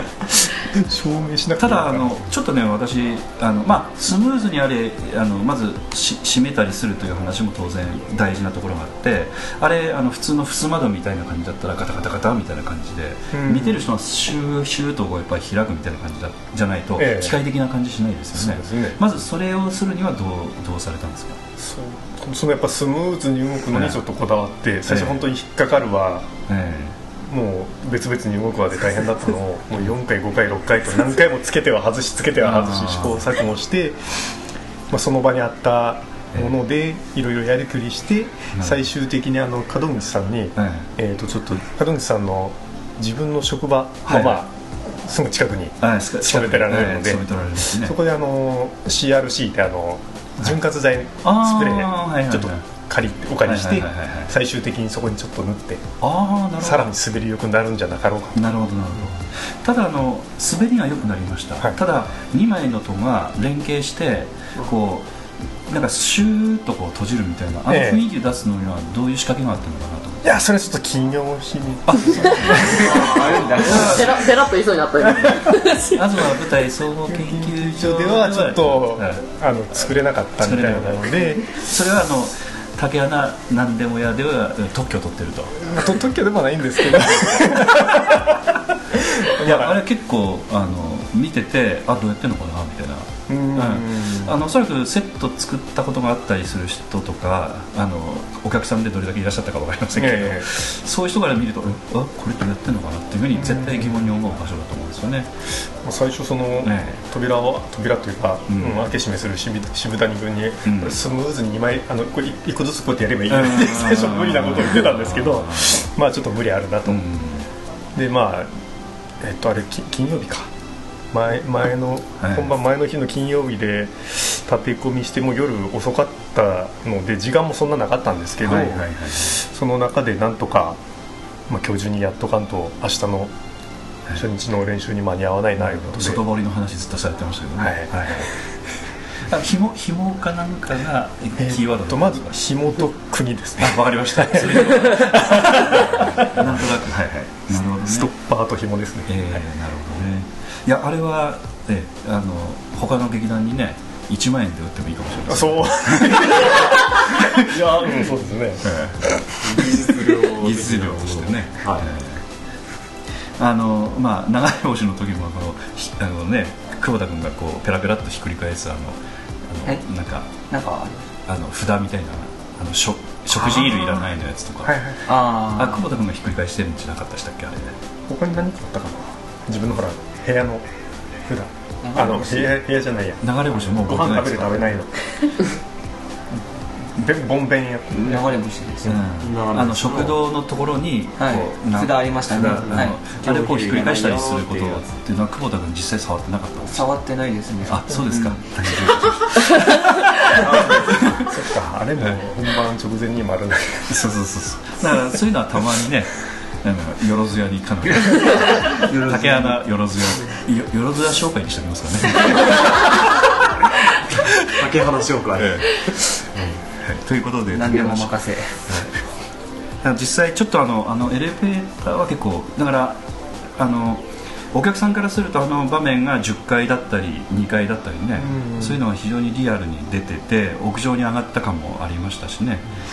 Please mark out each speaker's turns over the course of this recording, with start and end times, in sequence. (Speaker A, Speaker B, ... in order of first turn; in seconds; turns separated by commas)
Speaker A: 0.7-2.2, Speaker B: 1.6-21.4, Speaker A: 13.3-13.8, Speaker A: 17.0-17.4, Speaker A: 18.4-19.0, Speaker A: 21.6-26.3, Speaker B: 23.7-24.0, Speaker B: 24.9-25.2, Speaker B: 26.5-27.0, Speaker A: 27.2-34.1, Speaker B: 32.4-33.2, Speaker A: 34.9-55.9, Speaker B: 38.6-38.9, Speaker B: 40.6-40.9, Speaker B: 44.1-44.4, Speaker B: 45.8-48.0, Speaker B: 51.2-52.6, Speaker B: 53.4-54.3, Speaker B: 56.0-56.9, Speaker A: 56.6-58.4, Speaker B: 58.4-65.1, Speaker B: 65.7-70.4, Speaker A: 67.7-68.0, Speaker A: 70.2-73.8, Speaker B: 71.9-72.8, Speaker C: 72.5-74.1, Speaker B: 73.6-74.1, Speaker D: 73.8-76.1, Speaker B: 75.9-79.2, Speaker A: 77.1-81.5, Speaker B: 80.4-85.9, Speaker A: 85.6-88.4, Speaker A: 89.0-89.8, Speaker B: 89.4-105.3, Speaker A: 93.3-94.3, Speaker A: 100.0-100.5, Speaker A: 103.3-104.1, Speaker A: 105.8-117.0, Speaker B: 106.6-107.0, Speaker B: 108.5-108.9, Speaker B: 110.7-111.0, Speaker B: 113.3-115.9, Speaker B: 116.9-117.5, Speaker A: 118.0-118.5, Speaker A: 119.2-120.5, Speaker A: 121.1-130.8, Speaker B: 122.2-122.5, Speaker B: 128.4-129.3, Speaker A: 131.5-133.3, Speaker A: 134.1-136.2, Speaker B: 135.6-138.3, Speaker A: 137.6-138.3, Speaker B: 139.2-142.3, Speaker A: 141.4-146.7, Speaker B: 143.6-148.1, Speaker A: 147.6-149.4, Speaker B: 149.1-157.4, Speaker A: 155.3-158.8, Speaker B: 158.6-159.0, Speaker E: 159.4-161.9, Speaker B: 160.3-162.2, Speaker B: 163.4-170.3, Speaker C: 170.5-171.1, Speaker B: 171.3-174.7, Speaker C: 173.3-173.7, Speaker A: 173.7-174.0, Speaker A: 174.6-175.0, Speaker C: 175.1-175.9, Speaker B: 175.6-177.8, Speaker A: 178.1-180.6, Speaker A: 181.3-185.5, Speaker C: 181.8-182.5, Speaker B: 183.2-184.8, Speaker A: 186.9-189.0, Speaker C: 187.9-189.0, Speaker B: 188.9-196.9, Speaker E: 189.2-190.2, Speaker C: 191.2-194.8, Speaker C: 196.7-198.0, Speaker B: 197.7-200.2, Speaker A: 200.4-204.1, Speaker B: 203.9-212.9, Speaker C: 208.3-209.6, Speaker E: 214.6-215.6, Speaker B: 215.4-216.2, Speaker B: 216.8-218.9, Speaker C: 217.5-218.7, Speaker B: 219.8-223.0, Speaker B: 223.6-232.7, Speaker A: 228.2-228.8